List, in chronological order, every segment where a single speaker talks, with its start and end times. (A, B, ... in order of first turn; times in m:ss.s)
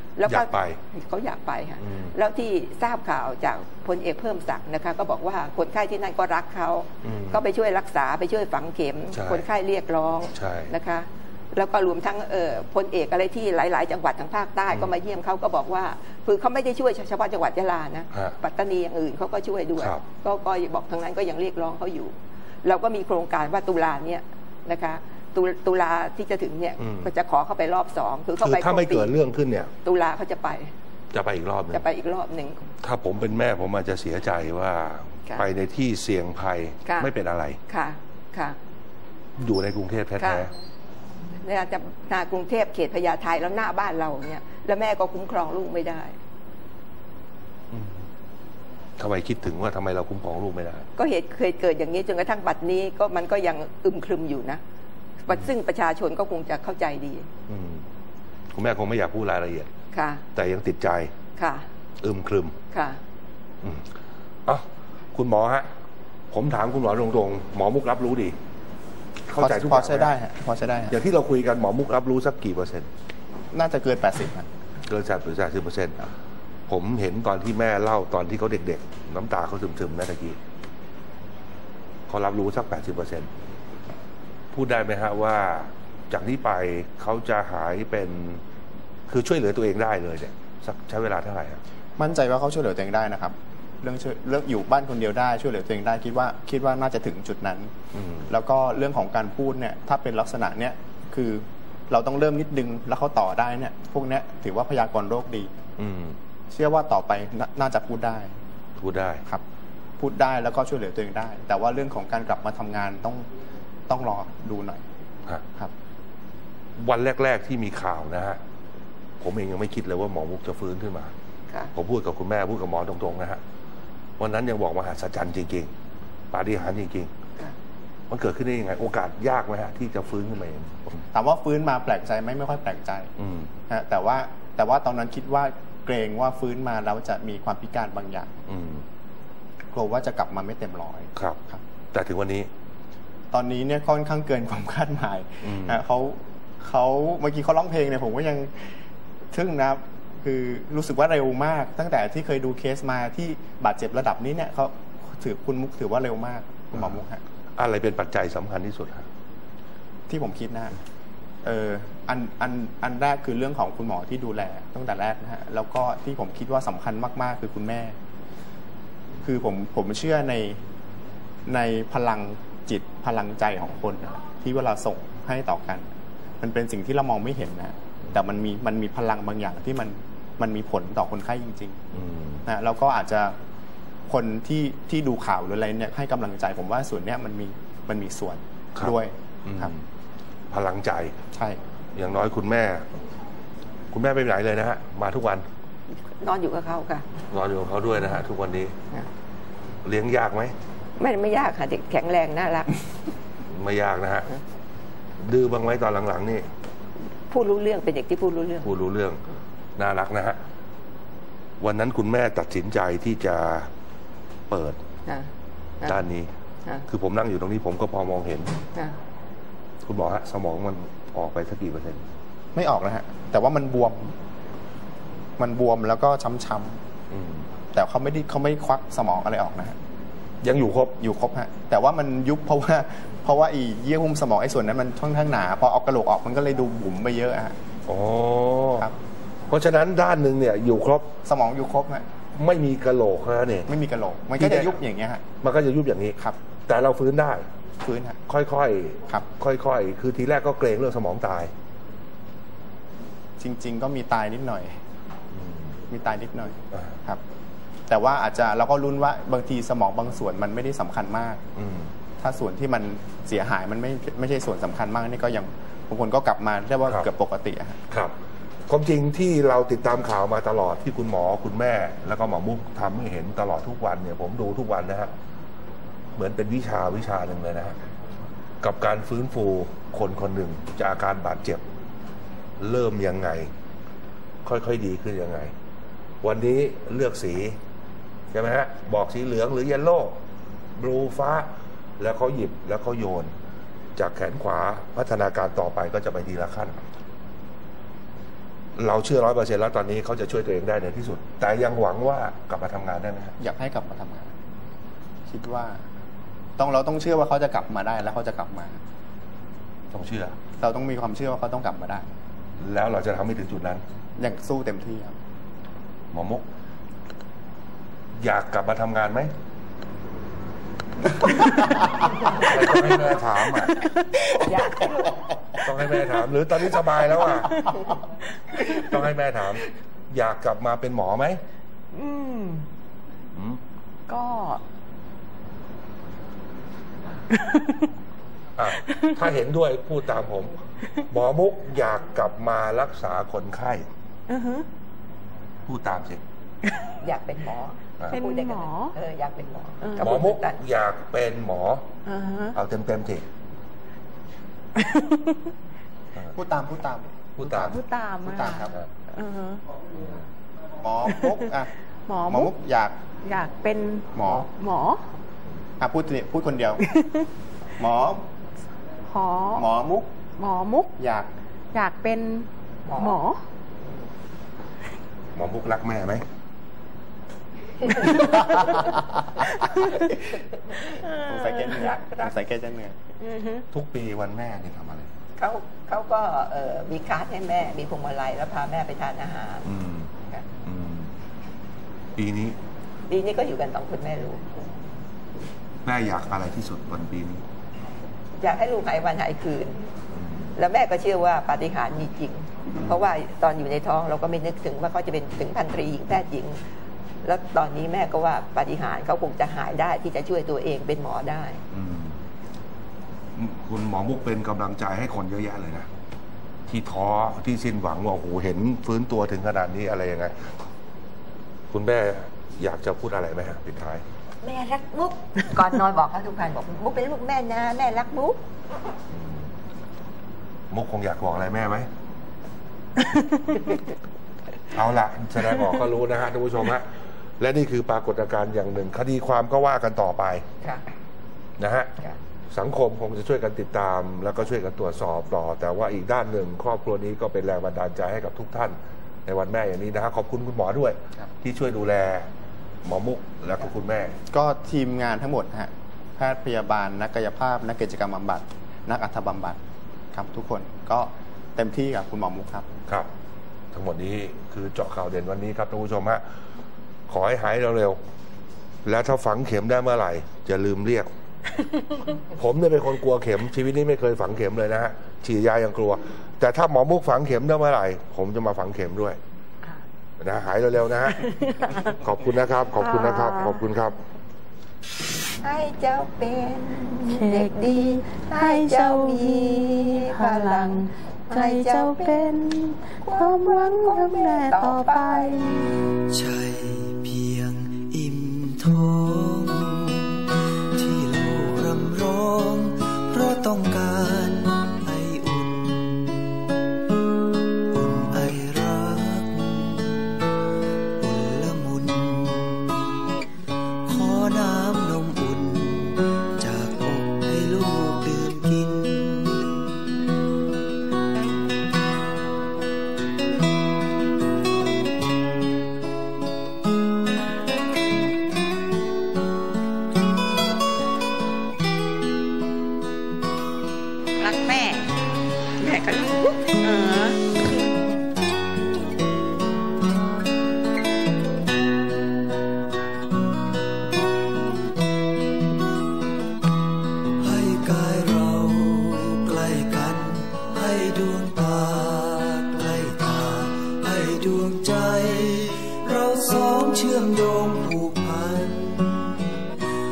0:00.2-0:29.2 A
0:00.3-0:00.8 B
0:01.8-0:02.1 B
0:07.0-0:07.4 B
0:09.1-0:09.4 B
0:10.3-0:10.7 B
0:19.8-0:20.0 B
0:26.8-0:27.1 B
0:28.4-0:29.7 B
0:29.8-0:30.7 A
0:31.1-0:31.8 B
0:31.7-0:32.7 A
0:32.8-0:37.6 B
0:36.8-0:37.1 A
0:37.7-0:38.6 A
0:39.4-0:40.5 B
0:40.2-0:40.5 A
0:41.4-0:46.2 A
0:47.7-0:48.0 B
0:49.0-0:50.8 B
0:51.0-0:54.6 A
0:55.2-0:57.3 A
0:57.5-0:57.8 B
0:58.5-0:59.7 B
0:59.9-1:00.2 A
1:00.3-1:01.1 B
1:01.4-1:01.7 A
1:02.0-1:02.6 B
1:02.7-1:03.0 A
1:04.5-1:05.7 B
1:06.3-1:08.4 B
1:09.3-1:10.1 B
1:09.4-1:11.0 C
1:10.9-1:12.9 B
1:13.5-1:14.5 C
1:14.9-1:16.1 B
1:16.7-1:20.4 B
1:22.1-1:23.3 B
1:24.5-1:28.4 B
1:29.1-1:31.6 B
1:32.0-1:37.7 C
1:37.9-1:38.3 B
1:38.3-1:45.5 C
1:45.8-1:46.2 B
1:46.5-1:48.3 C
1:48.8-1:49.2 B
1:50.0-1:53.3 C
1:53.9-1:54.8 C
1:56.8-1:58.4 B
1:59.2-2:01.1 B
2:01.8-2:03.4 B
2:04.2-2:05.7 B
2:06.3-2:07.1 B
2:08.1-2:11.0 B
2:11.1-2:13.1 C
2:13.2-2:13.5 B
2:13.7-2:18.4 C
2:18.5-2:18.8 B
2:19.7-2:21.6 C
2:21.9-2:22.5 B
2:23.3-2:28.8 C
2:25.4-2:25.8 B
2:29.3-2:37.2 C
2:36.7-2:37.0 B
2:37.6-2:39.1 B
2:40.1-2:40.8 C
2:41.4-2:48.0 C
2:49.2-2:50.6 C
2:51.5-2:55.9 C
2:56.4-3:01.8 C
3:01.9-3:02.4 B
3:02.5-3:03.4 C
3:04.1-3:09.7 C
3:08.8-3:09.9 B
3:10.5-3:11.2 B
3:11.3-3:11.6 C
3:12.0-3:12.9 B
3:13.9-3:15.5 B
3:16.0-3:17.1 A
3:17.3-3:18.8 B
3:19.8-3:20.6 B
3:21.0-3:22.7 A
3:23.5-3:24.3 B
3:25.2-3:26.5 B
3:27.3-3:28.7 A
3:28.6-3:29.2 B
3:29.8-3:30.4 B
3:31.6-3:33.7 B
3:34.5-3:34.8 B
3:35.9-3:36.3 B
3:36.9-3:38.6 B
3:39.8-3:42.0 B
3:42.6-3:44.1 C
3:45.4-3:46.8 C
3:47.1-3:47.5 B
3:47.7-3:49.8 C
3:50.4-3:51.0 B
3:51.0-3:57.6 C
3:57.9-3:58.9 B
3:59.5-4:01.1 B
4:01.2-4:02.1 C
4:02.3-4:03.7 B
4:03.7-4:05.2 C
4:04.4-4:04.8 B
4:05.4-4:07.5 B
4:07.8-4:08.2 C
4:08.3-4:11.5 B
4:13.4-4:14.8 C
4:15.3-4:15.8 B
4:15.9-4:17.2 C
4:17.9-4:21.4 C
4:21.6-4:21.9 B
4:22.2-4:27.8 C
4:27.9-4:28.2 B
4:28.7-4:35.1 B
4:36.2-4:37.8 B
4:38.6-4:41.6 B
4:42.6-4:43.5 B
4:44.4-4:45.5 B
4:46.2-4:47.6 B
4:48.3-4:50.2 B
4:50.8-4:53.3 B
4:54.0-4:56.8 B
4:58.8-5:03.4 B
5:03.4-5:04.3 C
5:05.3-5:05.8 C
5:06.6-5:08.8 C
5:09.9-5:10.4 B
5:10.6-5:12.1 C
5:12.6-5:13.8 B
5:14.2-5:15.2 C
5:16.1-5:16.4 B
5:18.2-5:19.3 B
5:22.3-5:23.8 B
5:23.6-5:24.8 D
5:24.4-5:25.3 A
5:25.6-5:27.7 B
5:28.7-5:31.4 B
5:31.9-5:32.7 D
5:33.4-5:33.6 B
5:34.1-5:34.6 D
5:37.3-5:37.9 D
5:38.6-5:43.9 B
5:38.9-5:39.2 D
5:44.3-5:44.7 D
5:45.7-5:46.2 B
5:47.0-5:50.6 A
5:48.1-5:49.0 D
5:49.8-5:50.2 D
5:50.0-5:51.8 B
5:52.1-5:52.6 D
5:52.5-5:53.3 B
5:54.8-5:55.5 D
5:56.3-5:58.7 C
5:57.4-5:57.8 B
5:57.5-5:59.6 D
6:00.0-6:00.2 B
6:00.8-6:01.7 C
6:01.1-6:01.5 D
6:02.1-6:02.5 D
6:02.3-6:03.0 C
6:03.2-6:05.1 D
6:04.1-6:04.5 C
6:05.8-6:06.9 C
6:06.8-6:07.3 D
6:07.8-6:08.2 C
6:09.1-6:09.7 D
6:09.5-6:10.1 C
6:10.4-6:10.9 D
6:11.0-6:11.3 C
6:11.7-6:13.4 D
6:12.9-6:13.2 A
6:15.4-6:16.2 B
6:18.0-6:18.9 D
6:19.5-6:20.1 D
6:20.9-6:21.7 D
6:21.1-6:23.0 C
6:23.2-6:23.6 D
6:23.7-6:25.1 B
6:25.4-6:29.7 A
6:29.7-6:30.1 B
6:30.6-6:31.1 B
6:32.2-6:32.6 B
6:33.1-6:34.4 A
6:35.8-6:37.4 B
6:38.4-6:39.8 A
6:40.1-6:40.5 B
6:40.6-6:46.6 A
6:47.2-6:51.6 A
6:51.7-6:52.2 B
6:53.4-6:55.9 B
6:56.7-7:00.5 B
7:01.7-7:04.0 B
7:04.4-7:08.4 A
7:09.1-7:09.5 B
7:10.7-7:11.9 B
7:14.7-7:20.4 B
7:21.6-7:21.9 B
7:22.5-7:32.3 B
7:32.8-7:34.2 B
7:34.3-7:39.6 C
7:40.1-7:42.7 C
7:43.7-7:46.2 B
7:47.1-7:48.0 B
7:48.8-7:51.1 B
7:52.3-7:59.2 B
8:00.2-8:01.2 B
8:01.2-8:01.9 D
8:01.9-8:04.0 B
8:02.8-8:03.7 D
8:05.4-8:12.4 A
8:07.1-8:15.7 D
8:12.9-8:15.5 A
8:16.1-8:26.4 E
8:27.7-8:30.3 E
8:31.0-8:33.0 E
8:33.9-8:39.8 E
8:54.2-8:54.9 A
8:55.6-8:57.3 A
9:07.2-9:19.5 E